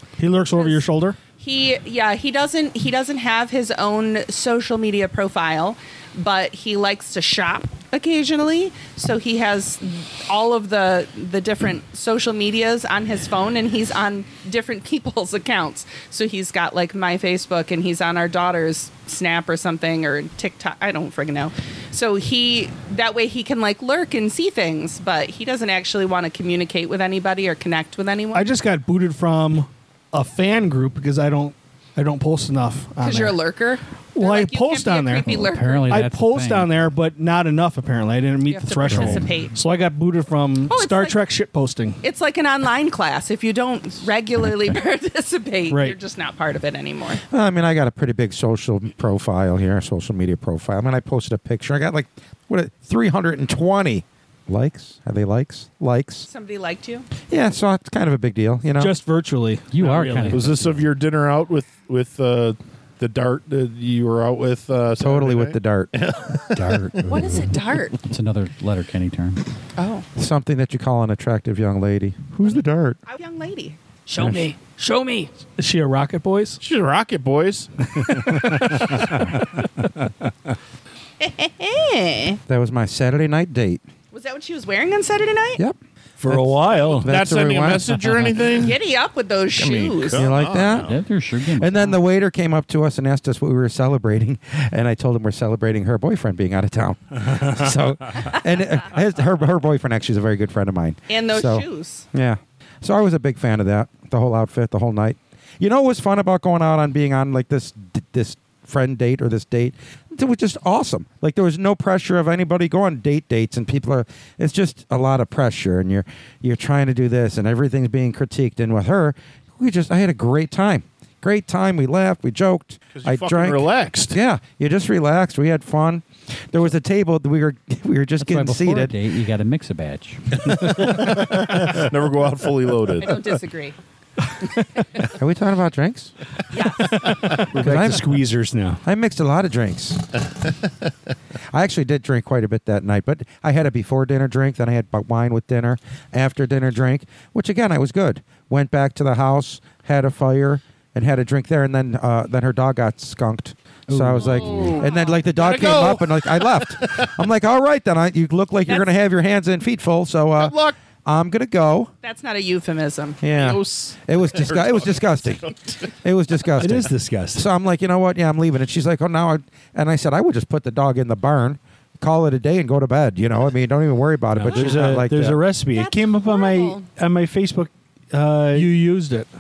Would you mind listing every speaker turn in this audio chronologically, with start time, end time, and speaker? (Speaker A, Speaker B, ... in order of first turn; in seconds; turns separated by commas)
Speaker A: 0.2-1.2, Speaker B: 0.5-0.8, Speaker B: 1.4-28.5, Speaker A: 28.3-33.4, Speaker B: 33.0-35.9, Speaker A: 34.1-42.0, Speaker C: 35.4-36.8, Speaker B: 38.5-39.6, Speaker C: 38.9-39.3, Speaker B: 40.7-41.2, Speaker B: 42.0-47.2, Speaker A: 45.7-46.0, Speaker D: 47.3-56.3, Speaker B: 56.3-57.1, Speaker D: 57.3-59.0, Speaker A: 58.8-60.6, Speaker C: 59.7-60.7, Speaker E: 60.3-66.8, Speaker D: 65.0-65.9, Speaker C: 66.5-69.4, Speaker B: 67.0-68.0, Speaker B: 69.8-70.0, Speaker D: 70.2-73.0, Speaker B: 72.5-75.3, Speaker D: 74.2-74.5, Speaker A: 75.6-76.6, Speaker E: 76.6-77.7, Speaker A: 78.1-78.9, Speaker B: 81.2-82.4, Speaker D: 82.5-83.8, Speaker B: 84.1-85.6, Speaker F: 86.2-87.1, Speaker E: 86.9-88.8, Speaker D: 87.0-88.0, Speaker B: 88.6-90.3, Speaker E: 89.6-91.0, Speaker D: 90.1-90.9, Speaker C: 90.7-92.0, Speaker D: 91.6-128.9, Speaker B: 101.1-102.1, Speaker E: 122.9-124.2, Speaker C: 128.2-130.5, Speaker E: 130.6-133.2, Speaker B: 133.0-133.8, Speaker D: 135.1-136.1, Speaker B: 136.5-137.1, Speaker F: 137.3-138.8, Speaker D: 137.5-138.2, Speaker D: 138.8-140.2, Speaker D: 141.5-161.9, Speaker E: 154.2-157.1, Speaker B: 154.6-155.2, Speaker E: 160.4-160.8, Speaker B: 162.0-163.2, Speaker D: 163.2-175.4, Speaker E: 163.3-165.9, Speaker F: 166.6-167.5, Speaker F: 174.3-178.7, Speaker B: 175.7-176.8, Speaker A: 178.5-179.3